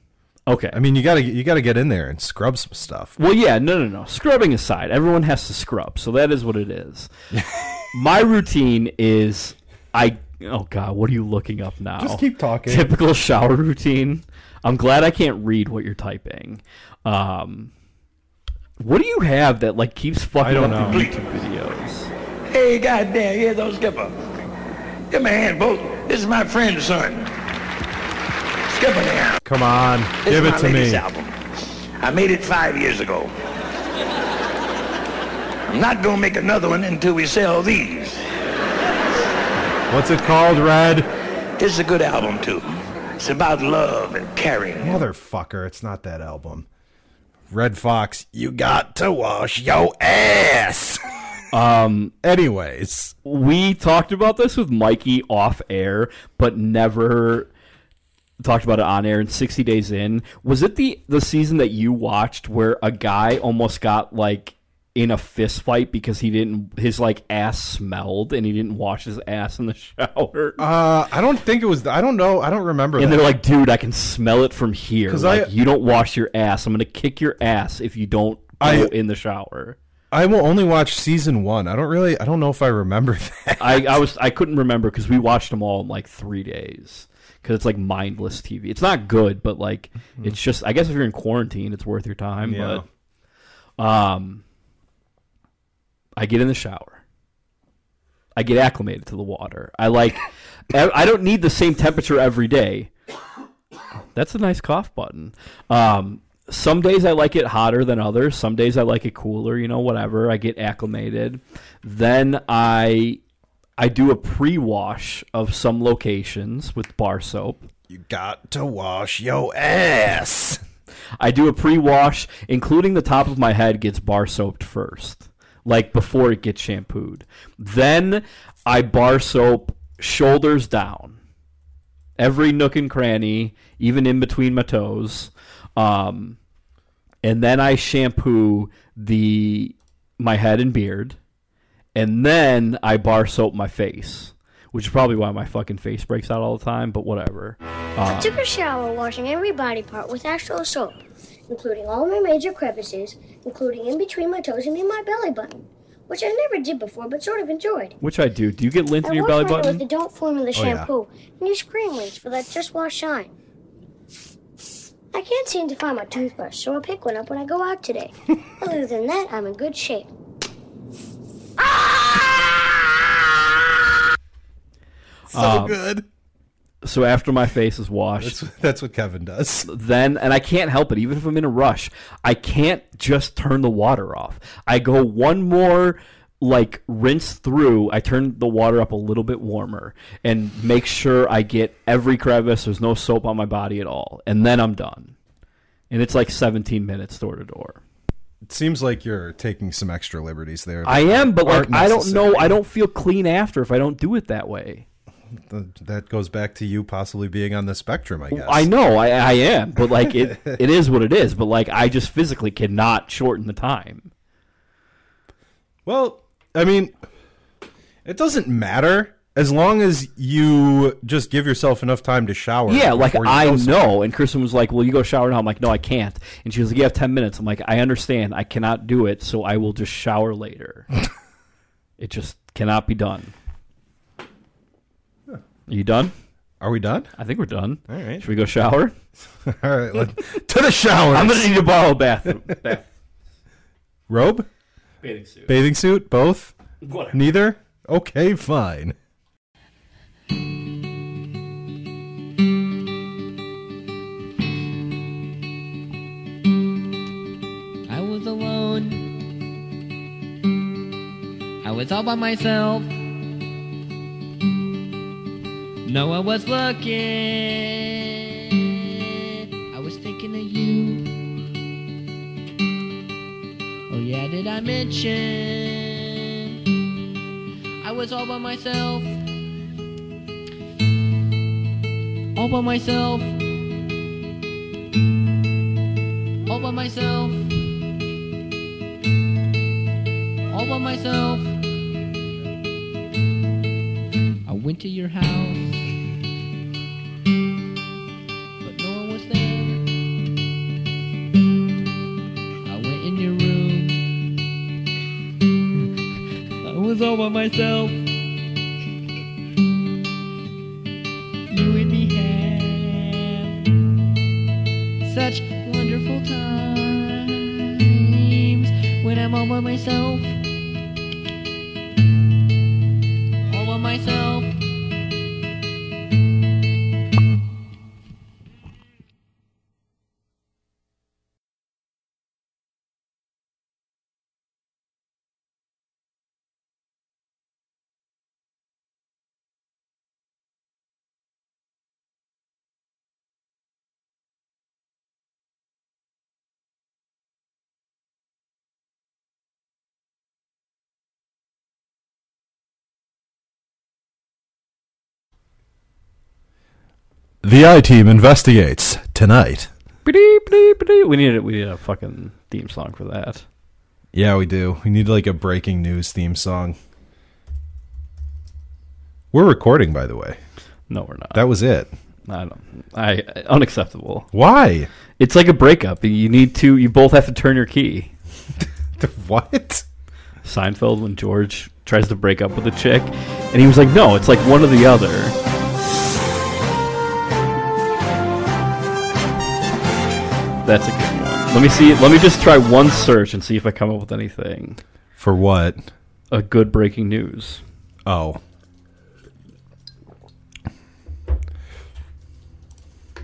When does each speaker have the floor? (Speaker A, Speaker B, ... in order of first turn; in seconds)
Speaker A: 0.5-0.8, 3.2-7.1, 7.9-17.7, 18.8-22.1, 51.5-52.1, 53.2-57.5, 58.4-70.6, 73.0-79.8, 83.6-92.8, 93.8-94.4, 96.2-97.0, 98.3-102.9, 104.1-113.2, 113.8-117.7, 121.2-131.2, 132.2-136.4, 137.2-141.2, 141.9-148.4, 158.0-159.8, 175.3-175.8, 176.8-178.4, 179.7-195.1, 195.9-197.8, 200.8-204.8, 208.3-214.1, 222.7-230.9, 232.0-233.3, 235.7-236.1, 237.2-238.9, 241.1-242.9, 245.0-245.6, 246.8-247.2, 360.0-363.4, 370.9-371.4, 372.3-374.3, 375.2-378.1, 380.4-385.4, 390.6-394.8, 396.3-397.6
Speaker B: 0.7-3.1, 7.3-7.7, 12.0-12.9, 20.4-21.1, 29.4-31.0, 39.9-41.1, 44.8-46.7, 47.5-51.0, 52.2-53.1, 70.6-73.3, 75.1-75.5, 78.6-78.9, 80.1-84.0, 92.4-92.8, 117.9-120.6, 160.5-160.9, 171.6-172.7, 175.3-176.1, 178.2-179.7, 198.4-202.6, 205.3-208.7, 209.8-210.6, 215.8-216.9, 218.0-223.9, 236.6-237.1, 237.9-238.2, 239.4-241.5, 244.1-244.5, 245.5-246.5, 247.1-248.9, 357.4-359.7, 364.1-366.8, 369.3-370.4, 371.3-371.9, 374.3-374.9, 379.0-379.8, 395.2-395.8, 398.0-398.4
Speaker C: 22.5-24.2, 25.1-27.3, 28.6-29.4, 30.2-31.3, 32.0-33.3, 35.7-38.2, 41.6-45.0
Speaker D: 148.0-157.9, 159.0-163.3, 165.1-170.1
Speaker E: 257.9-259.2, 261.6-262.9, 265.8-271.2, 273.9-276.6, 277.8-279.2, 282.3-283.4, 286.4-287.6, 290.5-291.6, 294.4-295.9, 298.6-299.9, 302.6-304.1, 306.6-308.1, 311.5-313.7, 315.0-320.4, 323.5-324.6